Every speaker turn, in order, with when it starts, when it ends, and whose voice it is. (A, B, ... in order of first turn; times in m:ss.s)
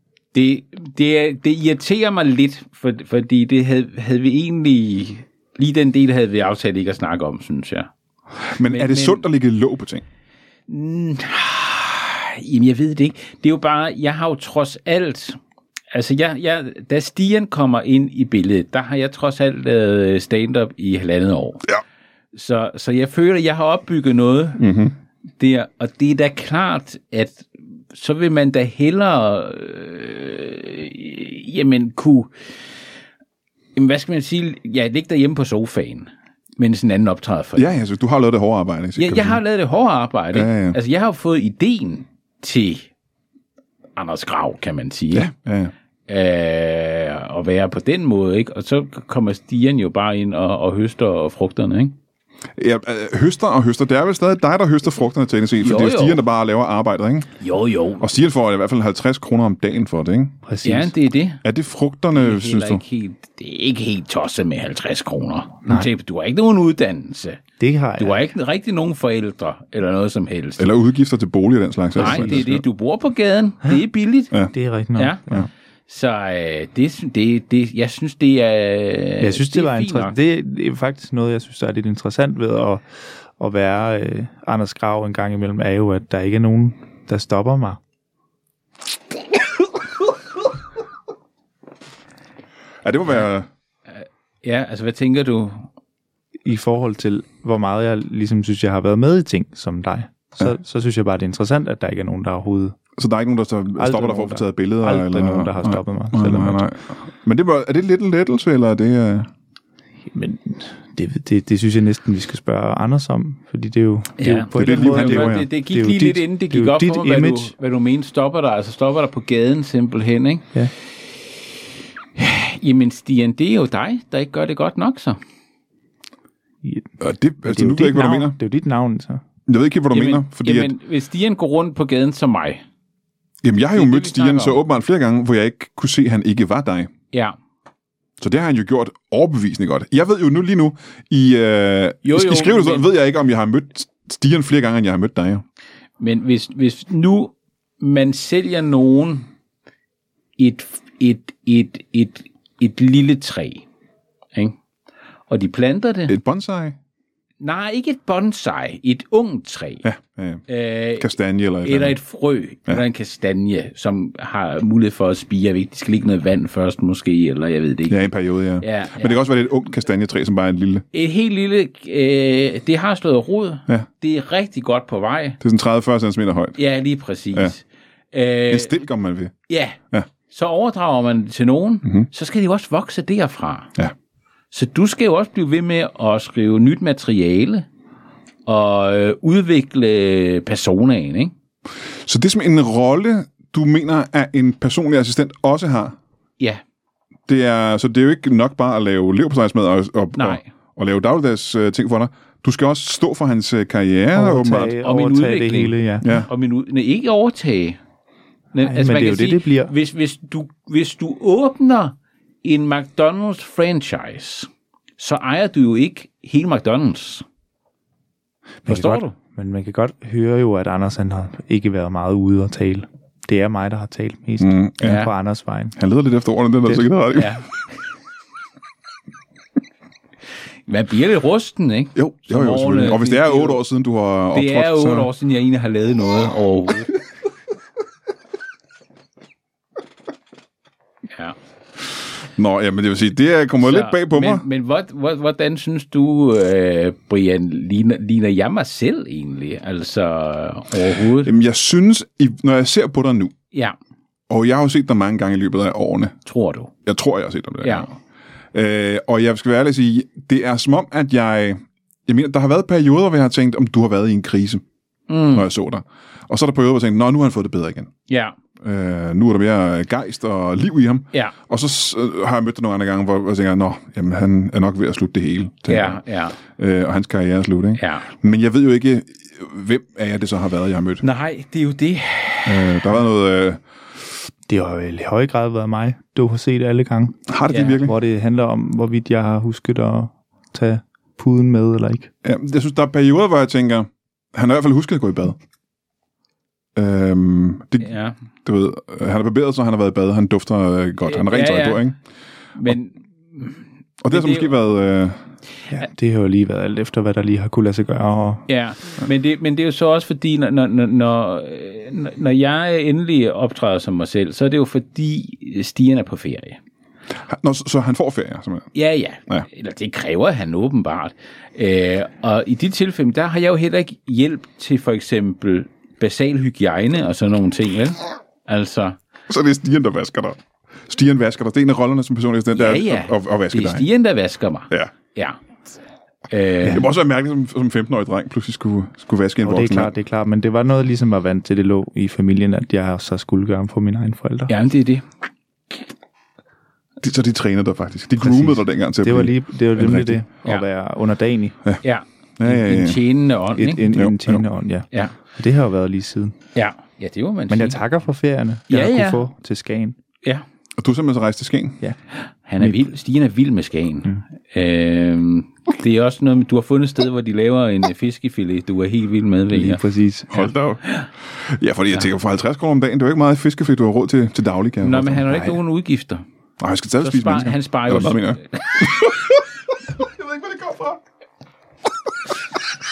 0:00.3-0:07.9 A
0:08.5-0:10.0 B
0:08.6-0:09.2 A
0:10.7-0:15.4 A
0:15.9-0:21.7 A
0:22.3-0:24.6 A
0:24.6-0:25.0 B
0:25.4-0:32.5 A
0:33.8-0:37.7 A
0:37.6-0:39.4 B
0:39.0-0:42.9 A
0:40.3-0:40.8 B
0:44.0-0:45.3 A
0:45.1-0:45.7 B
0:46.1-0:52.0 A
0:52.6-0:57.3 B
0:55.6-0:56.2 A
0:57.4-0:58.1 A
0:58.0-1:00.4 B
1:00.4-1:01.0 C
1:00.6-1:01.4 A
1:01.4-1:02.8 B
1:02.1-1:07.4 A
1:07.6-1:08.2 C
1:08.0-1:10.7 A
1:10.6-1:12.6 B
1:12.0-1:12.4 C
1:12.0-1:14.3 A
1:14.5-1:15.4 C
1:15.0-1:15.2 A
1:15.9-1:20.2 A
1:19.2-1:22.8 C
1:23.4-1:27.8 C
1:32.8-1:33.5 B
1:33.9-1:35.7 A
1:36.4-1:42.8 C
1:43.0-1:49.3 B
1:43.8-1:46.7 C
1:50.1-1:57.5 C
1:54.2-2:00.5 A
1:54.5-1:55.5 B
2:02.2-2:05.2 A
2:06.6-2:06.9 C
2:07.0-2:08.4 B
2:07.4-2:09.2 C
2:09.5-2:10.7 B
2:09.9-2:12.6 A
2:13.4-2:16.9 B
2:13.8-2:14.6 A
2:18.2-2:25.4 B
2:22.0-2:22.9 A
2:26.0-2:29.3 A
2:30.4-2:33.6 A
2:35.3-2:36.2 A
2:36.1-2:36.8 B
2:37.4-2:39.8 A
2:39.8-2:40.4 B
2:40.5-2:48.1 A
2:41.0-2:42.0 B
2:47.9-2:50.8 B
2:48.6-2:49.2 A
2:50.9-2:55.4 A
2:55.4-2:56.6 B
2:56.6-2:58.8 A
2:58.5-2:59.3 B
2:59.5-3:03.7 A
3:04.5-3:07.7 A
3:08.5-3:11.3 A
3:12.0-3:16.0 B
3:17.3-3:24.8 B
3:20.2-3:20.4 A
3:24.1-3:26.1 C
3:24.8-3:27.8 A
3:26.0-3:26.3 B
3:28.5-3:37.2 A
3:28.6-3:29.7 C
3:38.6-3:45.8 C
3:38.7-3:39.1 A
3:44.4-3:45.0 B
3:44.8-3:45.1 A
3:45.8-3:47.4 B
3:47.1-3:47.6 A
3:50.7-3:53.6 A
3:52.0-3:55.1 B
3:54.3-3:56.9 A
4:02.4-4:04.4 B
4:03.6-4:11.3 A
4:11.2-4:13.3 B
4:14.3-4:16.2 B
4:16.3-4:16.7 A
4:16.9-4:18.0 B
4:17.6-4:17.9 A
4:18.5-4:24.6 B
4:25.1-4:25.5 A
4:25.3-4:27.9 B
4:28.1-4:28.4 A
4:28.6-4:41.0 B
4:35.7-4:36.4 A
4:37.8-4:38.1 A
4:41.0-4:42.7 A
4:42.4-4:43.6 B
4:44.5-4:52.1 C
4:47.3-4:48.0 B
4:47.5-4:47.8 A
4:52.2-4:55.4 B
4:56.8-5:02.0 B
4:57.8-4:58.2 A
5:01.1-5:01.9 A
5:02.6-5:04.5 A
5:04.0-5:05.2 B
5:05.7-5:08.4 C
5:08.5-5:16.6 A
5:17.3-5:18.7 B
5:18.8-5:29.0 A
5:29.3-5:33.9 B
5:32.5-5:35.4 A
5:36.3-5:36.9 A
5:36.7-5:39.9 B
5:39.4-5:44.5 C
5:44.5-5:45.1 A
5:47.0-5:50.2 B
5:48.2-5:51.6 C
5:51.8-5:53.9 A
5:52.4-5:53.0 B
5:53.6-5:56.4 C
5:53.9-5:54.4 B
5:56.6-5:57.8 A
5:57.5-6:00.0 C
5:58.7-5:59.3 A
6:00.8-6:01.8 B
6:02.5-6:09.8 A
6:02.6-6:02.9 C
6:09.5-6:10.4 C
6:10.3-6:15.3 B
6:10.4-6:11.1 A
6:14.8-6:16.2 A
6:15.3-6:15.6 C
6:16.6-6:21.0 B
6:17.0-6:19.1 A